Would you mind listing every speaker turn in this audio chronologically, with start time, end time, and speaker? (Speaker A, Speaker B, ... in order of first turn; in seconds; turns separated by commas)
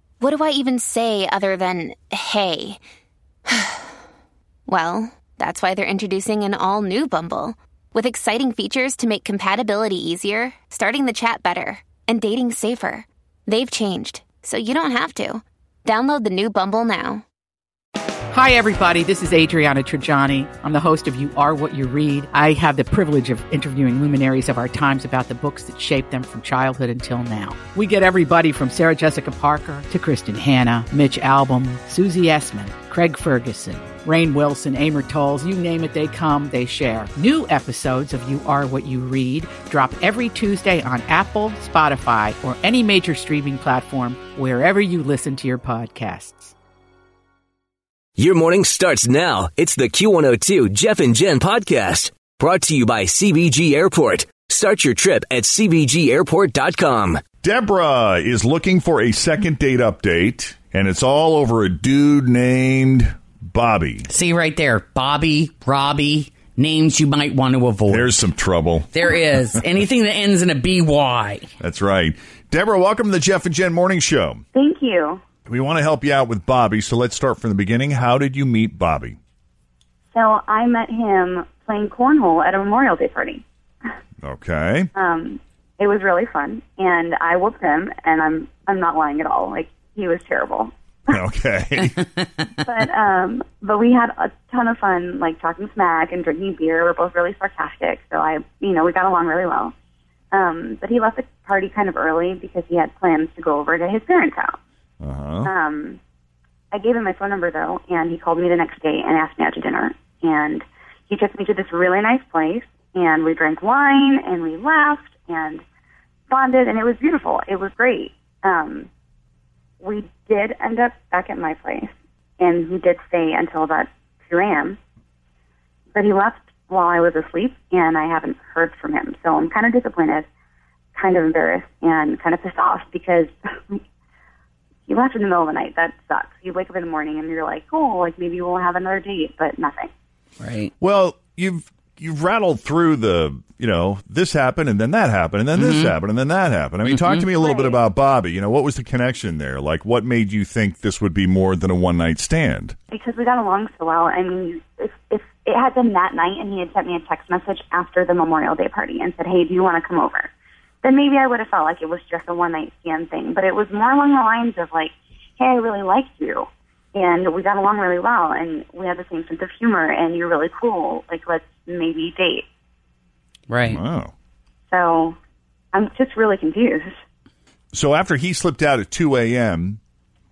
Speaker A: 0.2-2.8, Speaker A: 3.5-3.8, Speaker A: 4.7-17.2, Speaker B: 18.3-46.5, Speaker C: 48.2-57.2, Speaker D: 57.4-64.1, Speaker E: 64.1-68.3, Speaker D: 67.9-69.0, Speaker E: 68.9-71.5, Speaker D: 71.6-74.4, Speaker F: 74.5-75.2, Speaker D: 75.5-79.2, Speaker F: 80.1-83.4, Speaker D: 84.2-84.9, Speaker F: 84.9-91.2, Speaker D: 91.1-92.0, Speaker F: 92.6-99.7, Speaker F: 100.3-104.5, Speaker D: 105.0-105.5, Speaker F: 105.5-106.0, Speaker F: 106.7-115.6, Speaker F: 116.3-118.9, Speaker F: 119.8-124.8, Speaker F: 125.9-130.3, Speaker F: 130.9-133.8, Speaker F: 134.9-139.9, Speaker E: 140.4-140.7, Speaker D: 140.8-152.7, Speaker E: 145.6-145.9, Speaker E: 146.8-147.2, Speaker F: 147.4-147.8, Speaker F: 152.9-160.3, Speaker F: 160.8-172.4, Speaker E: 173.5-173.8, Speaker D: 173.6-174.1, Speaker F: 174.7-175.2, Speaker F: 175.7-176.9, Speaker D: 177.7-179.8